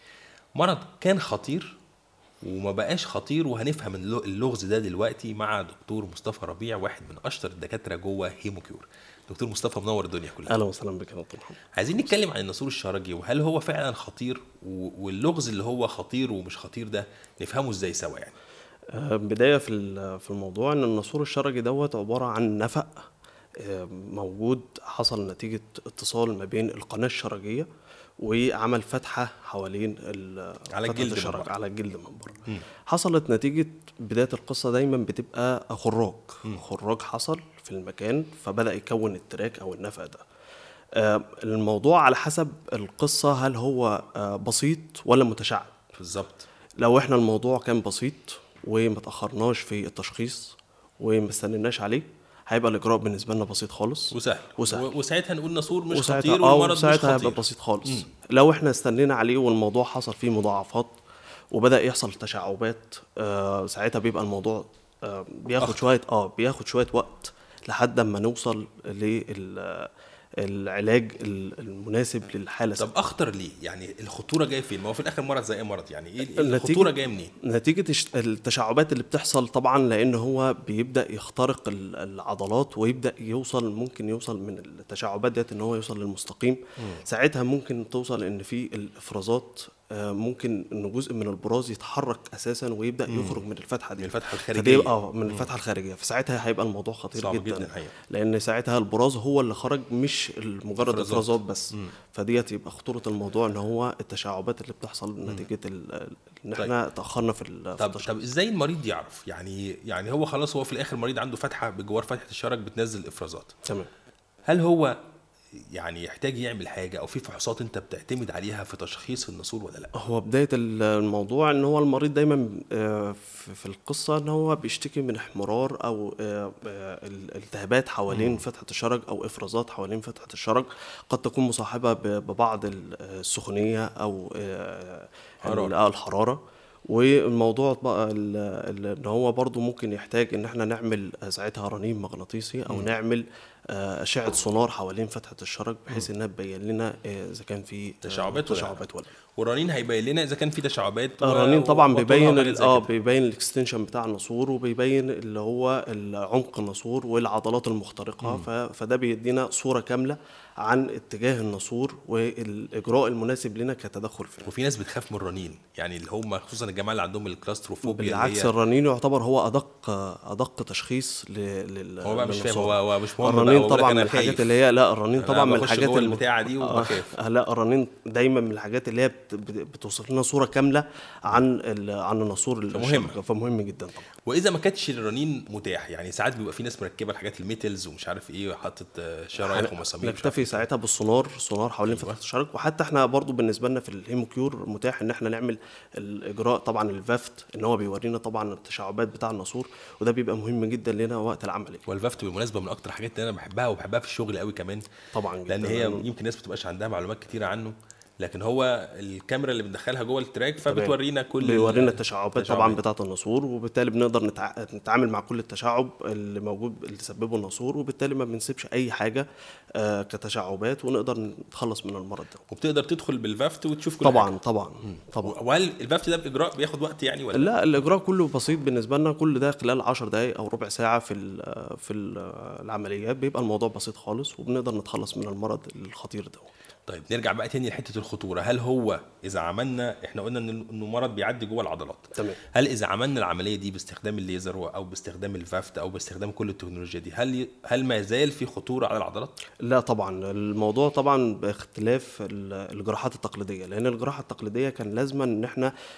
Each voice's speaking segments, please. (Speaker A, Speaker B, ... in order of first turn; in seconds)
Speaker A: 0.6-1.8, 2.4-10.6, 11.8-18.4, 30.7-31.5, 46.0-46.5, 54.1-58.1, 72.8-77.3, 93.1-93.4, 94.0-95.5, 97.2-97.9, 100.8-101.9, 107.8-113.5, 114.5-114.9, 115.7-119.9, 128.1-128.4, 135.4-135.8, 148.0-148.8, 149.4-152.9, 158.2-158.5, 164.4-168.5, 172.0-174.6, 175.2-177.2, 182.7-183.2, 184.2-190.6, 191.9-192.2, 201.9-204.8, 205.5-212.8, 222.5-224.3, 224.9-227.6, 236.9-249.3
Speaker B: 10.5-12.1, 18.9-23.0, 23.6-27.7, 28.2-40.2, 41.0-45.8, 46.8-54.9, 55.9-61.0, 61.5-72.9, 76.4-108.1, 113.7-113.9, 120.0-149.1, 151.2-164.5, 167.8-184.1, 189.4-201.8, 205.1-206.1, 210.7-222.4, 224.0-225.4, 227.3-236.6, 249.6-255.7